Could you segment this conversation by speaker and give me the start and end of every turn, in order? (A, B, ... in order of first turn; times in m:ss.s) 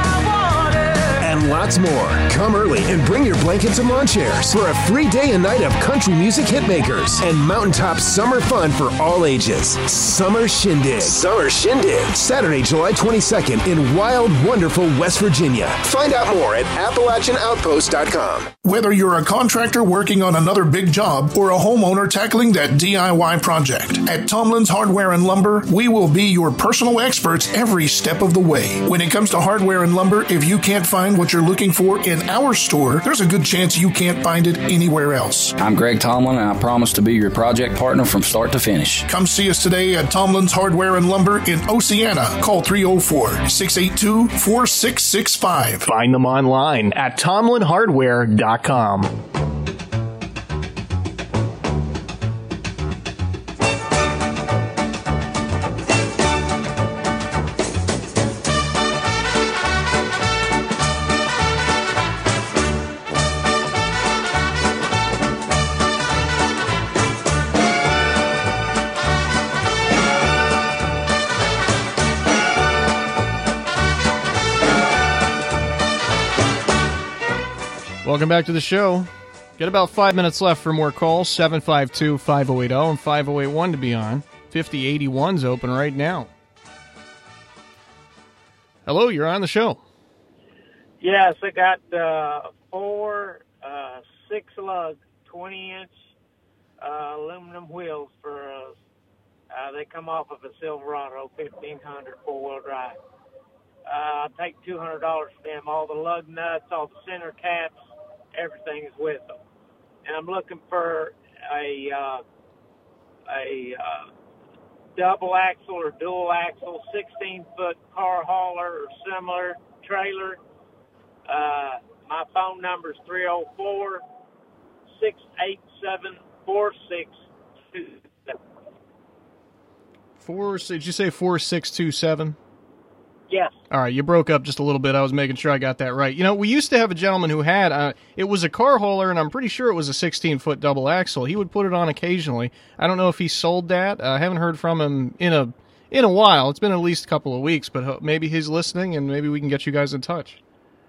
0:01.2-0:18.5 A
0:18.6-0:35.6 B
0:35.6-0:39.1 C
0:39.1-0:45.9 B
0:45.9-0:49.1 D
1:18.0-1:26.3 D
1:28.9-1:29.8 D
1:31.0-1:35.9 E
1:36.8-1:38.8 E
1:39.5-1:43.0 E
1:43.9-1:47.8 E
1:48.3-1:49.3 E
1:50.0-1:52.2 E
1:53.3-1:54.1 E
1:55.0-2:00.4 E
2:01.3-2:04.0 E
2:04.9-2:07.2 E
2:07.7-2:08.4 E
2:10.2-2:12.4 D
2:13.3-2:13.6 E
2:13.7-2:30.4 D